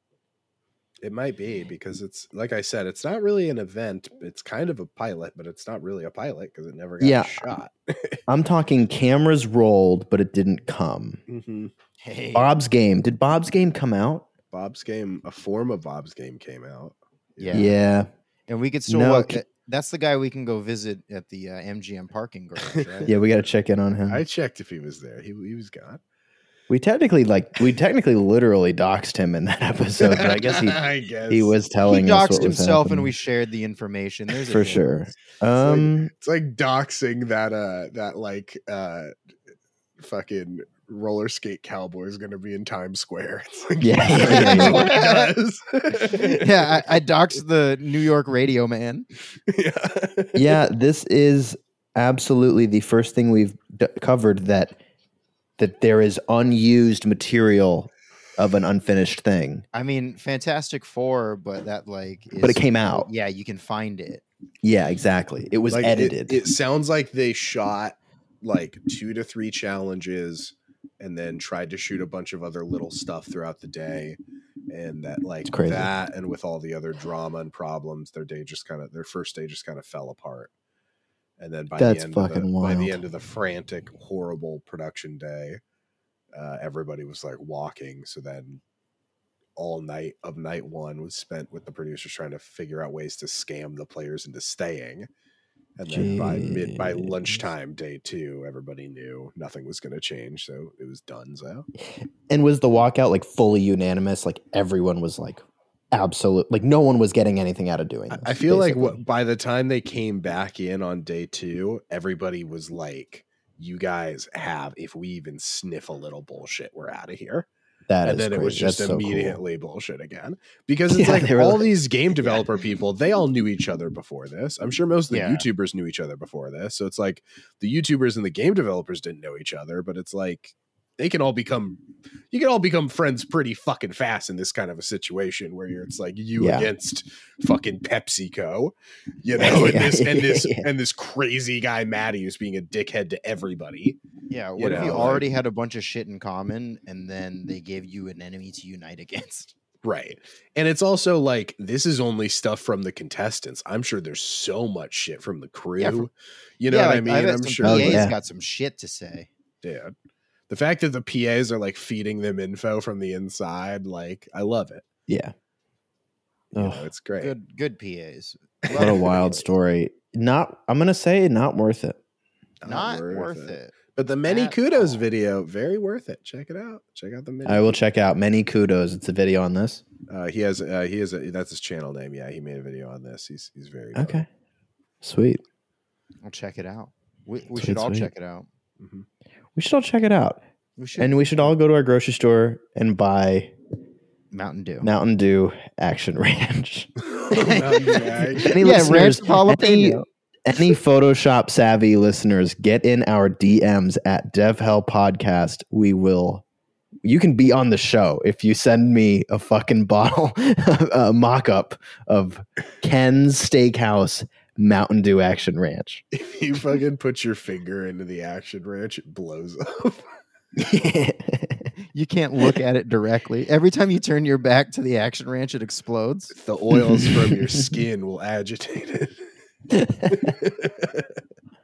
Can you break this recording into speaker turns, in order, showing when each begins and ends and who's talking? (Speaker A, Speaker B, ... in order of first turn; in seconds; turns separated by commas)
Speaker A: 1.0-8.2, Speaker B: 7.0-7.5, Speaker B: 8.3-11.2, Speaker A: 11.3-11.7, Speaker C: 12.0-12.5, Speaker B: 12.3-14.3, Speaker A: 14.5-17.7, Speaker C: 17.4-17.7, Speaker B: 17.5-18.1, Speaker C: 18.5-23.1, Speaker B: 18.9-19.4, Speaker A: 22.6-23.1, Speaker B: 23.1-24.2, Speaker A: 24.1-26.0, Speaker B: 26.7-33.1, Speaker A: 30.0-31.6, Speaker C: 31.8-34.8, Speaker B: 34.5-36.1, Speaker A: 34.5-34.8, Speaker A: 35.5-39.1, Speaker A: 40.0-46.8, Speaker B: 43.8-44.9, Speaker C: 44.1-45.3, Speaker C: 45.9-49.1, Speaker A: 49.5-50.6, Speaker B: 50.3-54.8, Speaker B: 55.6-59.6, Speaker C: 59.7-64.2, Speaker B: 62.4-63.1, Speaker B: 64.6-66.4, Speaker A: 65.7-74.2, Speaker A: 74.7-80.5, Speaker B: 75.5-75.9, Speaker A: 81.4-85.6, Speaker B: 81.8-83.0, Speaker A: 86.3-88.6, Speaker A: 89.5-95.1, Speaker A: 95.8-101.7, Speaker B: 95.9-97.4, Speaker B: 102.0-109.0, Speaker A: 108.1-117.5, Speaker B: 117.9-119.4, Speaker A: 118.0-144.0, Speaker B: 120.9-121.7, Speaker C: 125.1-125.4, Speaker B: 136.4-136.7, Speaker B: 139.4-140.7, Speaker C: 144.3-149.5, Speaker A: 144.6-145.3, Speaker A: 149.8-158.1, Speaker C: 155.8-156.1, Speaker C: 156.7-159.3, Speaker B: 157.6-158.1, Speaker A: 159.6-159.9, Speaker A: 160.5-164.9, Speaker B: 165.1-165.3, Speaker A: 166.5-167.3, Speaker B: 166.5-166.8, Speaker C: 167.2-169.4, Speaker A: 168.7-169.0, Speaker B: 168.7-172.0, Speaker A: 172.6-177.8, Speaker C: 172.7-175.0, Speaker B: 177.4-179.8, Speaker A: 180.1-184.2, Speaker B: 183.9-184.3, Speaker B: 185.0-185.4, Speaker C: 186.2-188.5, Speaker B: 187.5-188.1, Speaker A: 188.8-189.1, Speaker B: 189.6-190.4, Speaker C: 190.8-191.5, Speaker B: 191.0-193.5, Speaker C: 194.3-194.9, Speaker B: 194.8-197.5, Speaker A: 197.1-198.8, Speaker C: 197.3-200.0, Speaker B: 198.3-206.4, Speaker B: 207.0-216.0, Speaker A: 216.1-220.1, Speaker B: 220.6-221.7, Speaker C: 221.9-226.3, Speaker A: 226.3-229.3, Speaker B: 226.7-227.6, Speaker B: 229.7-230.3, Speaker A: 230.1-231.2